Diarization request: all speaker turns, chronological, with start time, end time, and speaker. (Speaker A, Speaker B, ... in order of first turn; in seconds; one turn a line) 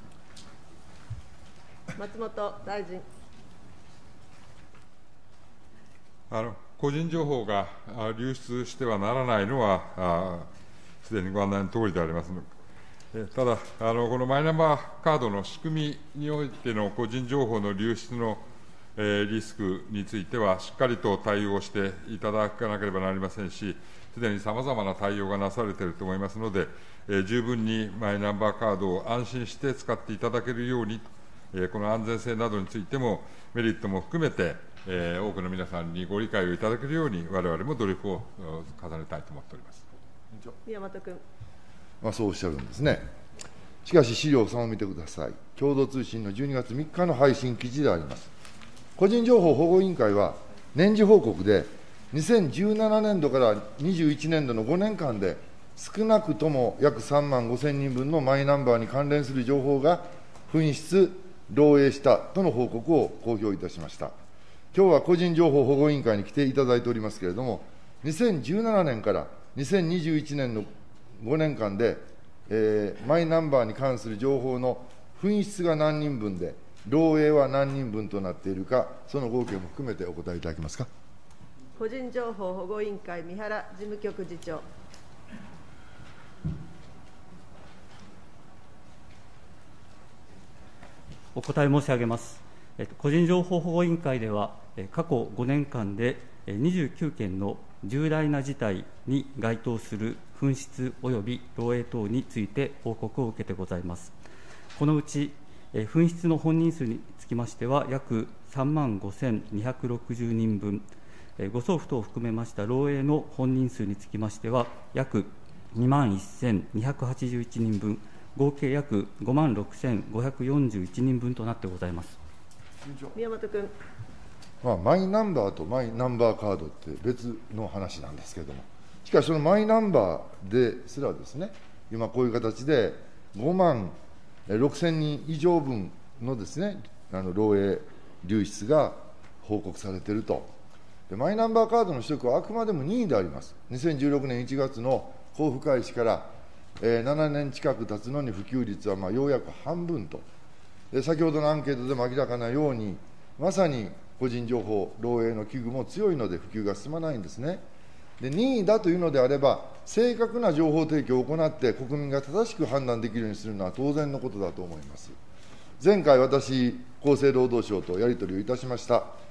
Speaker A: 1.9-3.0
Speaker B: 6.3-10.5
Speaker B: 11.0-12.4
Speaker B: 13.1-18.4
Speaker B: 19.0-39.8
Speaker A: 40.6-41.2
Speaker C: 42.0-43.1
Speaker C: 43.8-48.3
Speaker C: 49.0-64.1
Speaker C: 64.7-80.9
Speaker A: 81.8-84.6
Speaker D: 91.3-104.1
Speaker D: 104.8-110.9
Speaker D: 111.4-122.2
Speaker A: 123.1-123.7
Speaker C: 124.6-133.9
Speaker C: 134.5-140.5
Speaker C: 141.1-146.3
Speaker C: 146.8-150.2
Speaker C: 150.9-157.6
Speaker C: 158.2-165.2
Speaker C: 165.8-169.1